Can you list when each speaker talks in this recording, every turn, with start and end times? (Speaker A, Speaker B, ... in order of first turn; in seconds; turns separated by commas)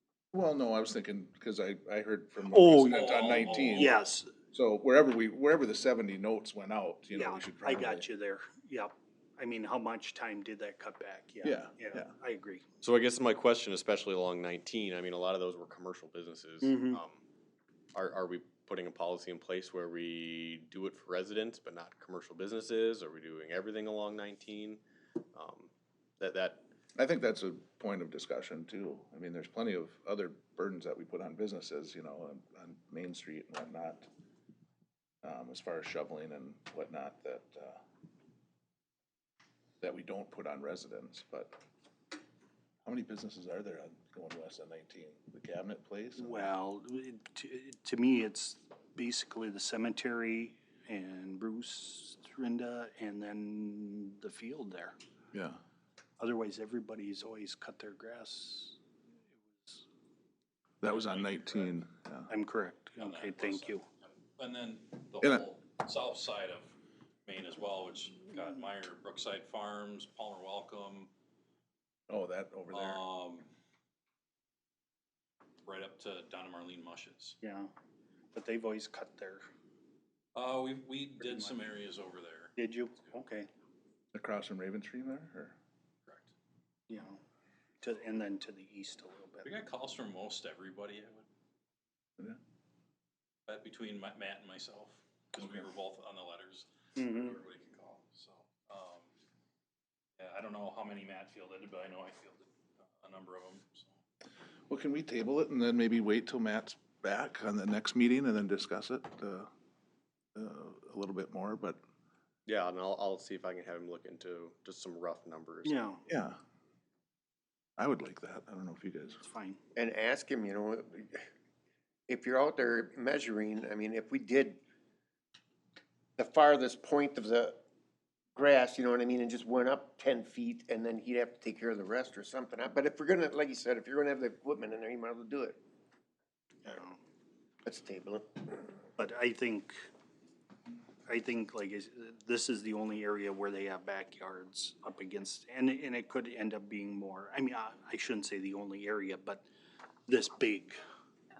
Speaker A: 0.3-4.0, Speaker B: 2.5-3.2, Speaker C: 2.9-4.0, Speaker B: 3.7-4.3, Speaker A: 4.5-8.1, Speaker B: 7.1-12.6, Speaker A: 11.4-12.1, Speaker D: 12.8-17.2, Speaker B: 16.6-17.0, Speaker D: 17.9-24.8, Speaker D: 25.3-26.7, Speaker A: 26.9-34.1, Speaker A: 35.2-37.8, Speaker A: 39.8-41.6, Speaker A: 42.8-46.5, Speaker B: 46.2-55.0, Speaker A: 55.3-55.6, Speaker B: 56.2-58.8, Speaker B: 59.5-59.8, Speaker A: 60.8-62.3, Speaker C: 60.8-61.7, Speaker B: 62.3-63.9, Speaker C: 63.0-66.7, Speaker C: 67.2-71.1, Speaker A: 72.1-73.0, Speaker C: 72.7-73.5, Speaker C: 75.6-77.3, Speaker B: 77.4-77.7, Speaker B: 78.3-79.4, Speaker C: 80.3-82.5, Speaker B: 82.6-83.5, Speaker A: 84.1-85.5, Speaker B: 86.9-87.2, Speaker B: 87.8-89.5, Speaker C: 89.4-91.2, Speaker C: 93.5-99.1, Speaker B: 97.0-97.3, Speaker C: 100.2-104.0, Speaker A: 104.7-109.5, Speaker A: 110.3-111.8, Speaker D: 112.5-115.8, Speaker B: 115.6-116.0, Speaker A: 116.1-116.4, Speaker A: 117.8-119.2, Speaker B: 119.2-119.6, Speaker E: 119.8-121.2, Speaker E: 122.1-124.6, Speaker E: 126.2-127.6, Speaker E: 128.3-135.6, Speaker B: 136.7-137.0, Speaker E: 137.6-138.6, Speaker B: 139.0-139.8, Speaker B: 141.1-149.4, Speaker B: 150.1-150.8